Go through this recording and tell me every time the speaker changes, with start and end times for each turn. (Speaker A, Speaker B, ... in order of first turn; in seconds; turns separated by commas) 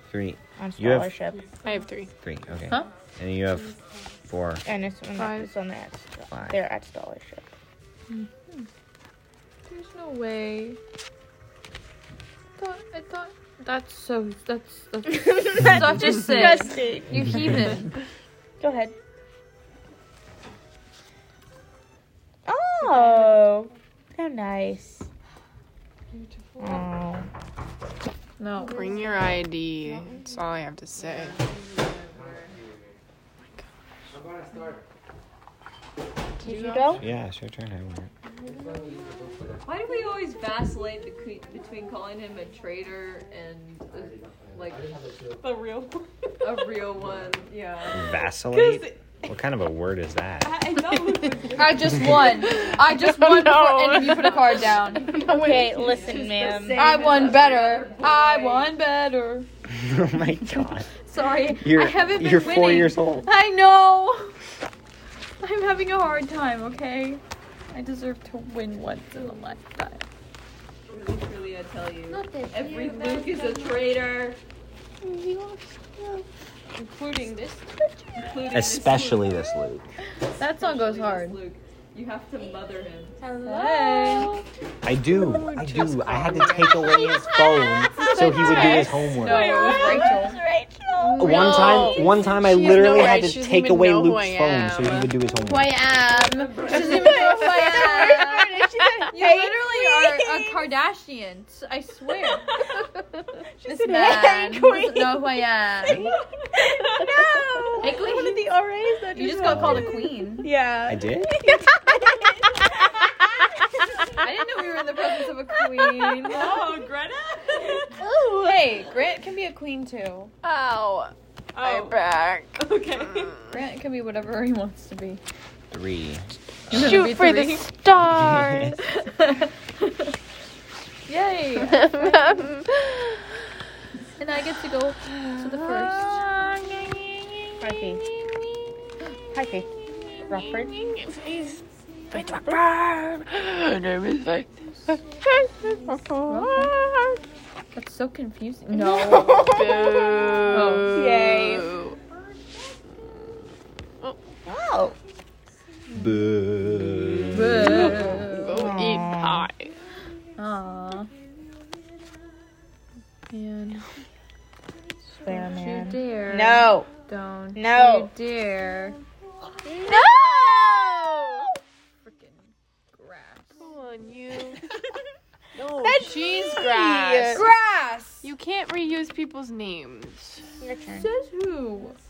Speaker A: 0.1-1.1, Speaker B: 0.6-1.4, Speaker C: 1.6-2.1, Speaker A: 2.2-3.7, Speaker D: 3.5-4.0, Speaker A: 4.3-4.6, Speaker B: 4.7-7.5, Speaker E: 5.2-5.5, Speaker A: 6.3-6.6, Speaker E: 8.1-8.7, Speaker E: 9.7-10.8, Speaker E: 12.6-17.9, Speaker B: 15.1-17.5, Speaker B: 18.6-18.9, Speaker B: 22.5-25.1, Speaker D: 22.8-23.5, Speaker D: 26.1-26.9, Speaker B: 26.6-27.3, Speaker E: 28.4-29.0, Speaker C: 28.7-31.4, Speaker F: 31.0-32.6, Speaker C: 36.4-37.0, Speaker B: 36.4-37.0, Speaker A: 37.0-38.1, Speaker F: 39.6-45.0, Speaker D: 45.4-46.8, Speaker F: 46.4-48.1, Speaker A: 47.9-50.7, Speaker D: 48.4-49.0, Speaker D: 50.4-52.4, Speaker E: 51.6-55.2, Speaker C: 52.7-56.1, Speaker F: 54.9-58.7, Speaker B: 55.2-57.0, Speaker E: 56.7-59.5, Speaker A: 59.7-60.9, Speaker E: 61.0-64.3, Speaker A: 61.5-63.3, Speaker E: 65.4-70.0, Speaker F: 70.9-74.4, Speaker D: 72.1-73.9, Speaker B: 75.0-76.2, Speaker D: 76.8-77.7, Speaker F: 78.2-79.5, Speaker A: 78.5-79.9, Speaker E: 80.4-81.4, Speaker F: 80.4-83.2, Speaker D: 83.2-84.4, Speaker E: 83.4-84.3, Speaker A: 84.8-89.7, Speaker C: 85.1-86.9, Speaker B: 86.8-91.8, Speaker C: 88.0-89.1, Speaker D: 88.3-88.7, Speaker E: 89.1-90.4, Speaker D: 89.5-90.2, Speaker E: 91.0-92.0, Speaker C: 91.2-95.2, Speaker A: 91.2-95.8, Speaker E: 95.5-106.1, Speaker D: 96.2-97.1, Speaker B: 96.9-100.6, Speaker C: 97.1-98.0, Speaker B: 103.6-105.3, Speaker B: 106.6-113.8, Speaker E: 107.8-108.5, Speaker E: 109.1-110.5, Speaker A: 109.5-110.0, Speaker A: 110.9-111.3, Speaker E: 114.2-116.5, Speaker D: 116.3-118.0, Speaker B: 118.0-118.6, Speaker E: 118.3-120.3, Speaker C: 120.4-122.6, Speaker D: 121.5-122.0, Speaker D: 122.6-123.3, Speaker E: 123.5-125.2, Speaker A: 125.7-127.0, Speaker E: 126.7-127.7, Speaker C: 126.7-128.8, Speaker A: 128.0-128.8, Speaker E: 128.8-130.1, Speaker E: 131.1-132.5, Speaker C: 131.7-132.9, Speaker E: 134.2-136.2, Speaker C: 135.2-136.9, Speaker B: 137.6-138.1, Speaker B: 139.3-139.7, Speaker B: 140.2-140.8, Speaker C: 140.6-141.6, Speaker C: 142.1-147.2, Speaker B: 142.1-142.6, Speaker E: 146.3-146.8, Speaker E: 147.8-149.5, Speaker B: 148.8-151.7, Speaker C: 149.5-152.0, Speaker E: 150.5-151.0, Speaker B: 154.5-155.0, Speaker A: 155.9-158.0, Speaker E: 157.3-158.6, Speaker C: 157.7-159.7, Speaker B: 157.8-159.5, Speaker E: 160.4-161.1, Speaker E: 163.3-163.9, Speaker B: 165.2-166.9, Speaker E: 165.3-169.0, Speaker B: 167.6-168.1, Speaker C: 169.7-170.1, Speaker B: 169.7-171.5, Speaker E: 172.0-173.7, Speaker C: 173.6-174.6, Speaker C: 175.6-177.5, Speaker B: 175.8-177.5, Speaker E: 177.3-178.3, Speaker C: 178.2-180.4, Speaker B: 180.6-181.1, Speaker E: 180.9-182.0